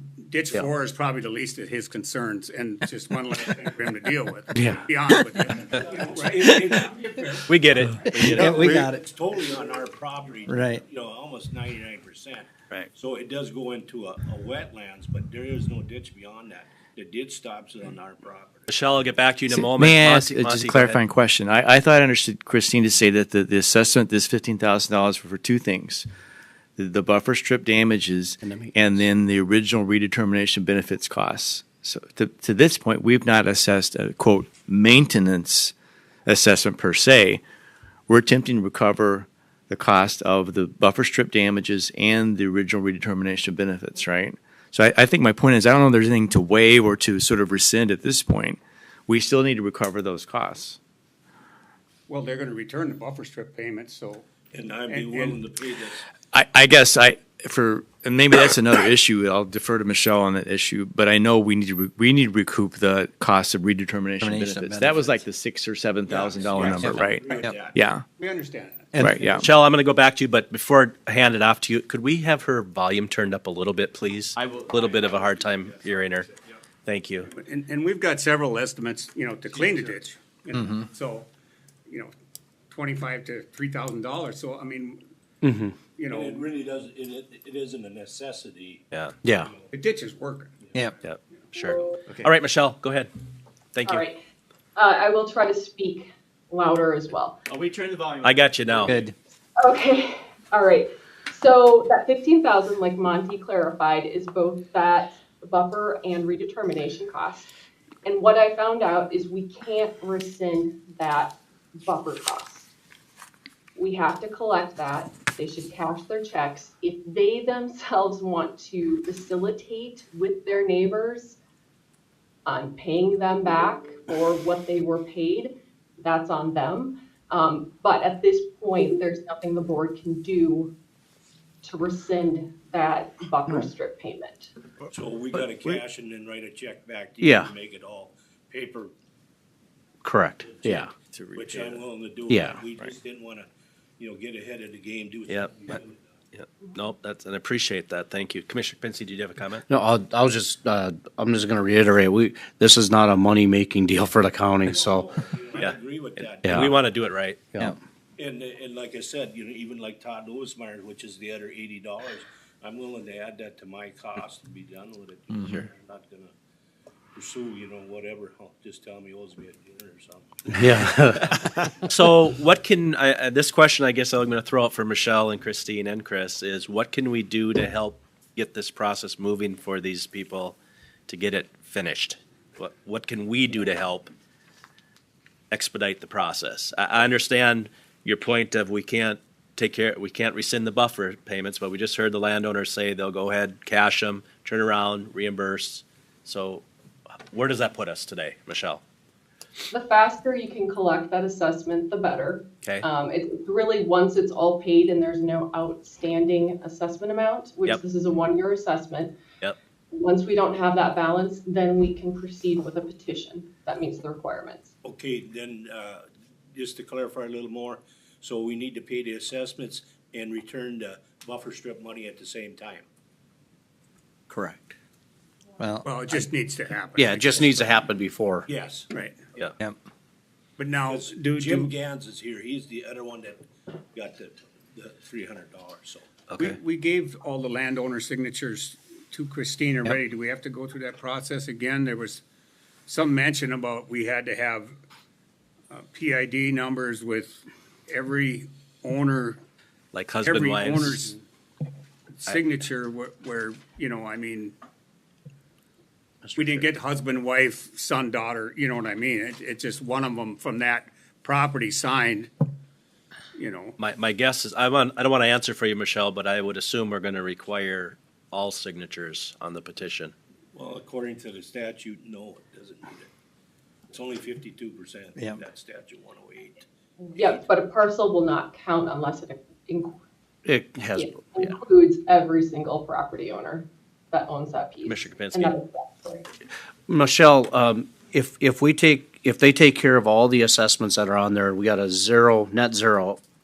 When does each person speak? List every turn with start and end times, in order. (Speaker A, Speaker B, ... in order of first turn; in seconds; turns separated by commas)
Speaker A: 0.2-8.3, Speaker B: 5.8-7.0, Speaker C: 7.5-8.7, Speaker D: 8.2-9.0, Speaker B: 8.3-18.7, Speaker D: 10.5-10.8, Speaker C: 18.7-21.0, Speaker D: 19.6-20.9, Speaker E: 20.0-26.1, Speaker E: 26.8-35.7, Speaker F: 28.4-28.7, Speaker E: 36.3-37.4, Speaker E: 38.1-50.8, Speaker A: 52.1-54.3, Speaker B: 54.5-56.1, Speaker A: 54.9-55.4, Speaker E: 56.3-68.0, Speaker D: 64.2-65.2, Speaker B: 66.1-67.8, Speaker D: 66.7-67.5, Speaker A: 68.2-69.0, Speaker D: 68.9-69.2, Speaker E: 69.0-69.5, Speaker C: 69.3-76.3, Speaker E: 74.4-75.0, Speaker C: 76.8-77.3, Speaker A: 77.3-81.3, Speaker A: 81.9-82.1, Speaker A: 82.7-85.0, Speaker F: 85.4-85.8, Speaker A: 85.8-86.5, Speaker B: 86.1-89.7, Speaker F: 89.2-89.5, Speaker A: 89.7-90.7, Speaker B: 90.6-90.9, Speaker C: 91.0-93.1, Speaker C: 93.7-94.0, Speaker G: 93.8-94.2, Speaker G: 94.8-97.4, Speaker E: 97.5-99.0, Speaker C: 98.2-99.0, Speaker D: 98.8-99.1, Speaker G: 99.6-107.5, Speaker G: 108.0-112.7, Speaker G: 113.8-121.4, Speaker G: 122.5-130.7, Speaker G: 131.6-134.5, Speaker B: 134.9-138.9, Speaker F: 137.2-137.5, Speaker F: 140.0-140.9, Speaker B: 140.5-146.0, Speaker E: 141.0-141.8, Speaker F: 142.3-142.6, Speaker C: 145.3-145.8, Speaker C: 146.3-149.7, Speaker F: 149.7-155.1, Speaker B: 154.6-156.9, Speaker C: 155.6-157.4, Speaker B: 158.2-166.3, Speaker B: 167.1-171.2, Speaker F: 170.5-171.2, Speaker C: 171.9-180.6, Speaker C: 181.1-184.1, Speaker C: 185.5-196.7, Speaker C: 197.3-198.8, Speaker G: 199.7-209.2, Speaker G: 209.9-214.7, Speaker B: 214.8-222.8, Speaker D: 224.3-224.7, Speaker A: 225.8-227.8, Speaker F: 227.0-228.5, Speaker B: 228.5-228.9, Speaker A: 228.9-229.2, Speaker A: 230.6-231.8, Speaker B: 230.9-236.1, Speaker C: 236.3-236.6, Speaker A: 236.4-242.2, Speaker A: 242.9-244.7, Speaker A: 245.7-249.4, Speaker C: 249.9-251.1, Speaker A: 250.2-251.2, Speaker A: 252.2-254.6, Speaker F: 256.2-256.6, Speaker A: 256.3-262.3, Speaker A: 263.4-263.8, Speaker C: 263.8-270.1, Speaker B: 270.5-273.1, Speaker B: 273.9-276.7, Speaker G: 277.0-280.0, Speaker F: 280.4-281.6, Speaker G: 281.0-286.3, Speaker C: 284.9-285.6, Speaker F: 286.9-293.2